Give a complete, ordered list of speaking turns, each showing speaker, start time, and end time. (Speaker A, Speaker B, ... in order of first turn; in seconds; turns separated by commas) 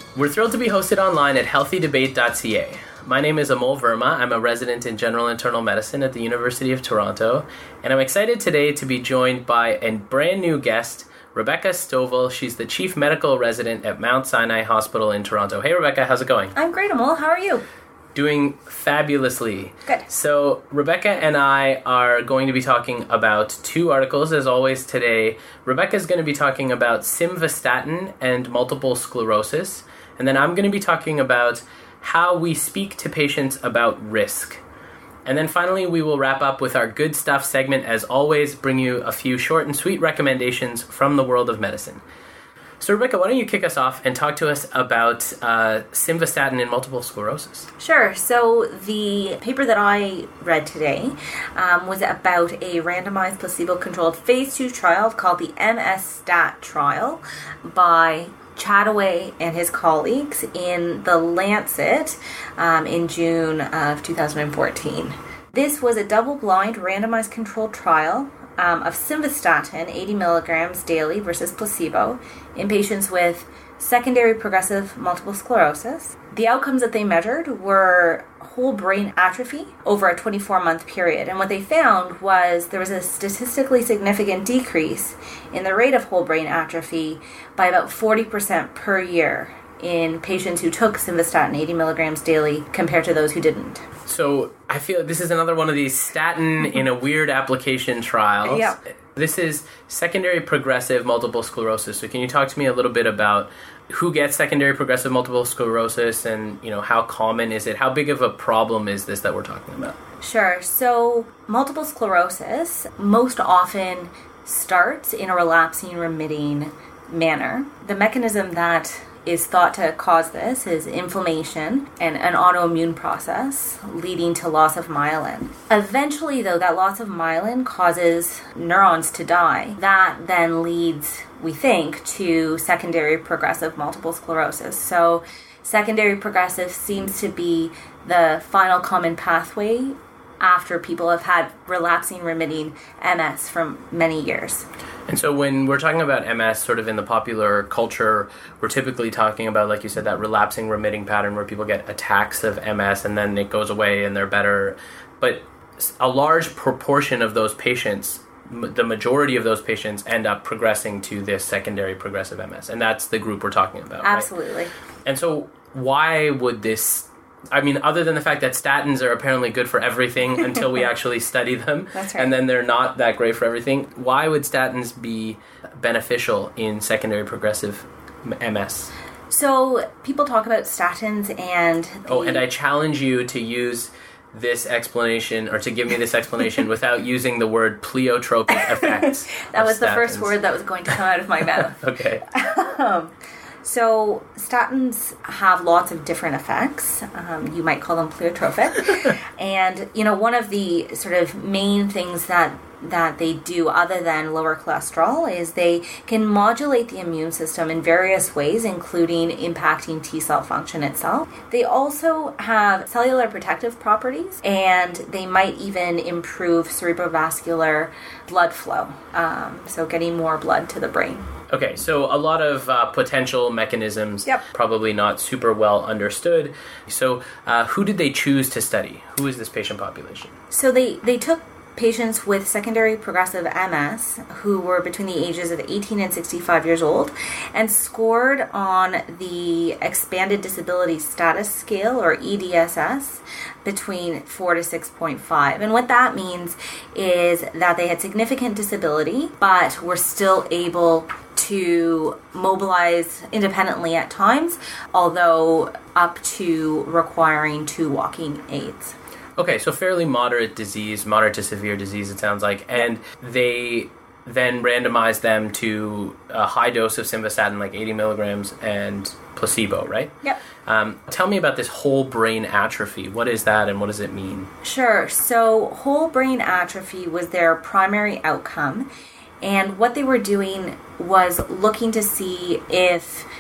Speaker A: 0.1-16.5, Speaker B: 16.6-17.6, Speaker A: 18.1-34.6, Speaker A: 35.2-42.0, Speaker A: 42.8-47.7, Speaker B: 47.8-93.8, Speaker A: 94.1-110.0, Speaker B: 98.5-98.8, Speaker B: 110.2-144.7, Speaker A: 145.1-164.3, Speaker B: 164.0-164.7, Speaker A: 165.1-178.9, Speaker B: 171.9-172.3, Speaker B: 179.3-182.4, Speaker A: 182.1-190.3, Speaker B: 188.7-221.2, Speaker A: 191.6-192.3, Speaker A: 221.5-230.3, Speaker B: 230.5-259.0, Speaker A: 259.4-274.5, Speaker B: 274.6-278.9, Speaker B: 279.4-283.3